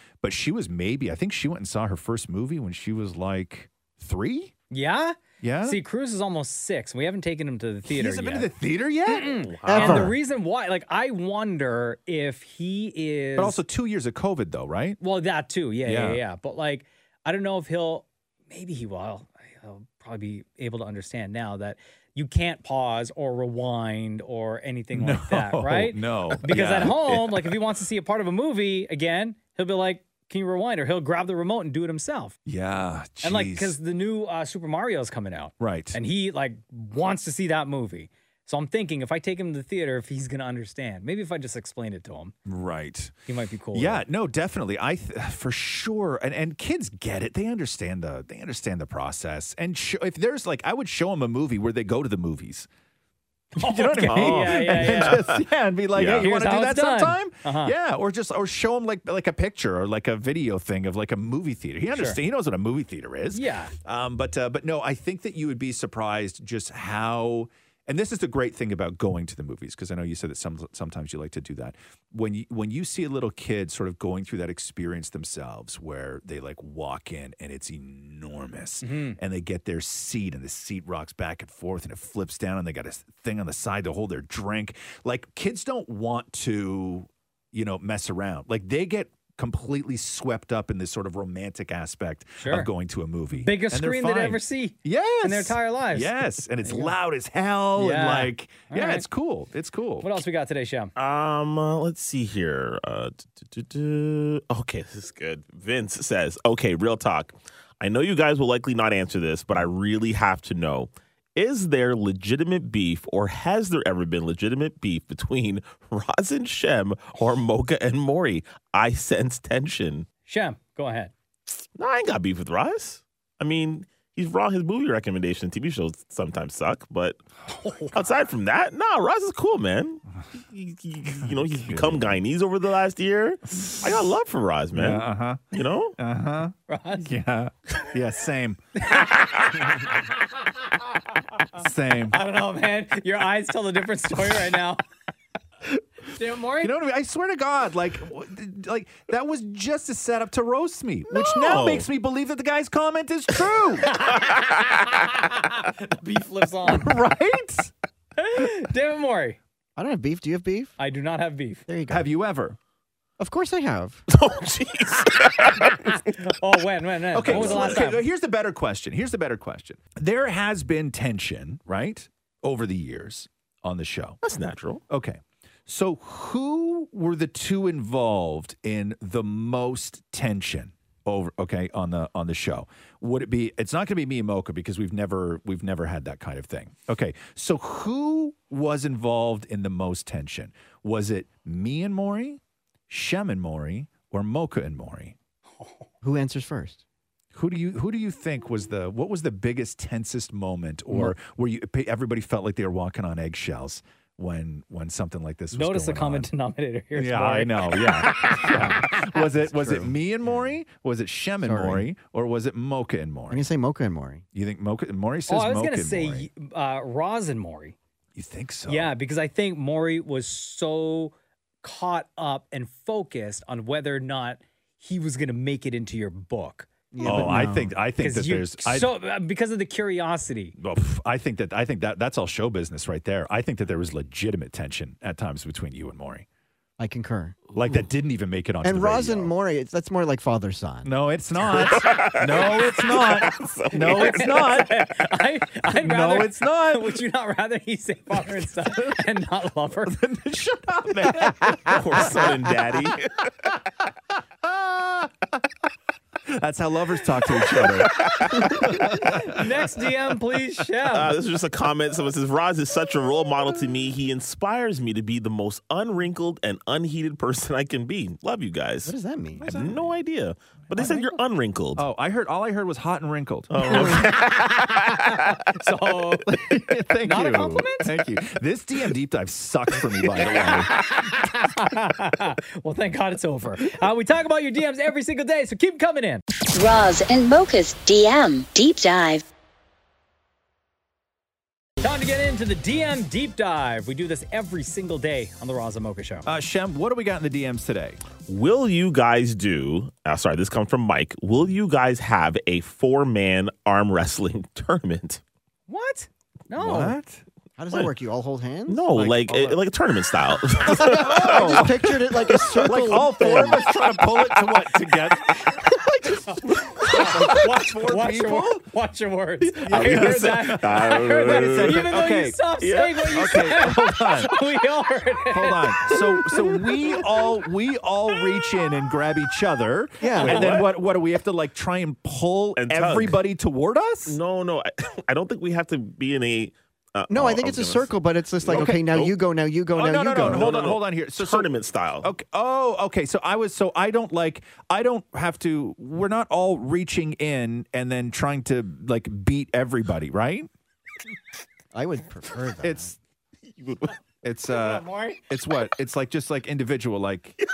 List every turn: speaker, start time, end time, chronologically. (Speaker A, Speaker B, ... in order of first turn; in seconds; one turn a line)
Speaker A: 0.2-4.5
Speaker B: 4.7-8.5
Speaker A: 5.4-5.8
Speaker A: 7.9-10.2
Speaker B: 9.1-13.6
Speaker C: 9.5-10.1
Speaker D: 9.7-10.1
Speaker A: 13.4-15.0
Speaker B: 15.0-32.4
Speaker A: 15.8-16.2
Speaker A: 24.9-27.4
Speaker A: 32.5-33.8
Speaker B: 33.2-42.3
Speaker A: 35.6-36.0
Speaker A: 42.5-43.1
Speaker B: 43.3-44.0
Speaker A: 43.7-52.7
Speaker A: 53.6-100.2
Speaker B: 53.6-55.2
Speaker C: 54.1-56.2
Speaker B: 56.1-57.7
Speaker B: 61.9-62.2
Speaker B: 63.3-63.7
Speaker B: 78.8-79.2
Speaker B: 92.4-92.7
Speaker B: 93.3-97.0
Speaker B: 97.8-99.0
Speaker B: 100.0-100.9
Speaker C: 101.0-120.1
Speaker B: 120.3-121.1
Speaker C: 121.8-127.2
Speaker B: 127.5-128.0
Speaker C: 127.9-136.0
Speaker A: 131.2-132.2
Speaker A: 133.5-134.0
Speaker A: 134.7-138.6
Speaker B: 136.7-137.1
Speaker B: 138.8-139.8
Speaker A: 141.5-142.2
Speaker B: 142.1-144.8
Speaker B: 146.1-146.7
Speaker A: 146.6-154.0
Speaker C: 151.2-151.9
Speaker B: 153.8-157.0
Speaker A: 156.7-157.7
Speaker B: 158.2-159.4
Speaker D: 159.8-160.8
Speaker B: 160.8-161.7
Speaker D: 161.7-162.1
Speaker A: 161.9-162.6
Speaker D: 163.2-164.1
Speaker C: 164.1-165.9
Speaker B: 165.9-168.0
Speaker A: 167.1-174.2
Speaker C: 167.2-167.8
Speaker C: 174.2-174.8
Speaker A: 174.9-195.2
Speaker B: 195.6-195.9
Speaker D: 196.0-196.8
Speaker A: 197.3-206.3
Speaker B: 205.5-208.6
Speaker A: 206.9-213.5
Speaker D: 208.6-210.5
Speaker D: 211.4-211.9
Speaker D: 213.3-214.2
Speaker A: 214.3-216.3
Speaker B: 215.3-217.8
Speaker A: 218.2-218.9
Speaker B: 218.7-227.4
Speaker D: 226.9-227.7
Speaker A: 227.0-228.9
Speaker B: 228.0-230.6
Speaker A: 230.6-236.3
Speaker D: 236.8-237.4
Speaker A: 237.5-239.3
Speaker D: 238.6-240.9
Speaker A: 240.8-244.9
Speaker C: 241.5-244.7
Speaker B: 243.7-250.0
Speaker A: 245.7-247.0
Speaker A: 248.2-249.0
Speaker A: 249.8-252.7
Speaker C: 251.6-253.3
Speaker A: 254.4-255.5
Speaker A: 256.2-260.0
Speaker C: 257.4-258.7
Speaker B: 259.0-261.1
Speaker C: 260.9-271.9
Speaker D: 268.9-269.6
Speaker A: 269.4-270.0
Speaker A: 270.7-271.2
Speaker A: 271.8-274.2
Speaker C: 273.5-275.4
Speaker B: 275.1-277.9
Speaker A: 276.3-280.7
Speaker B: 280.4-286.2
Speaker E: 286.6-289.2
Speaker B: 291.8-296.2
Speaker A: 296.2-298.0
Speaker C: 298.3-305.2
Speaker B: 305.7-307.0
Speaker A: 306.6-307.9
Speaker D: 307.6-308.9
Speaker C: 308.7-311.9
Speaker A: 308.9-309.6
Speaker A: 310.6-318.6
Speaker D: 310.6-313.7
Speaker C: 312.4-312.7
Speaker C: 314.1-314.7
Speaker B: 316.3-327.0
Speaker C: 319.4-321.9
Speaker A: 319.7-322.4
Speaker C: 322.6-323.2
Speaker A: 323.1-324.3
Speaker A: 325.3-334.2
Speaker D: 330.0-330.6
Speaker C: 330.2-330.7
Speaker C: 332.6-333.2
Speaker C: 334.1-339.1
Speaker D: 337.1-340.7
Speaker A: 338.5-338.9
Speaker A: 339.7-341.5
Speaker C: 340.2-342.1
Speaker A: 342.0-350.5
Speaker D: 351.7-352.9
Speaker A: 352.6-353.0
Speaker C: 353.6-353.9
Speaker A: 354.2-357.4
Speaker B: 354.5-355.2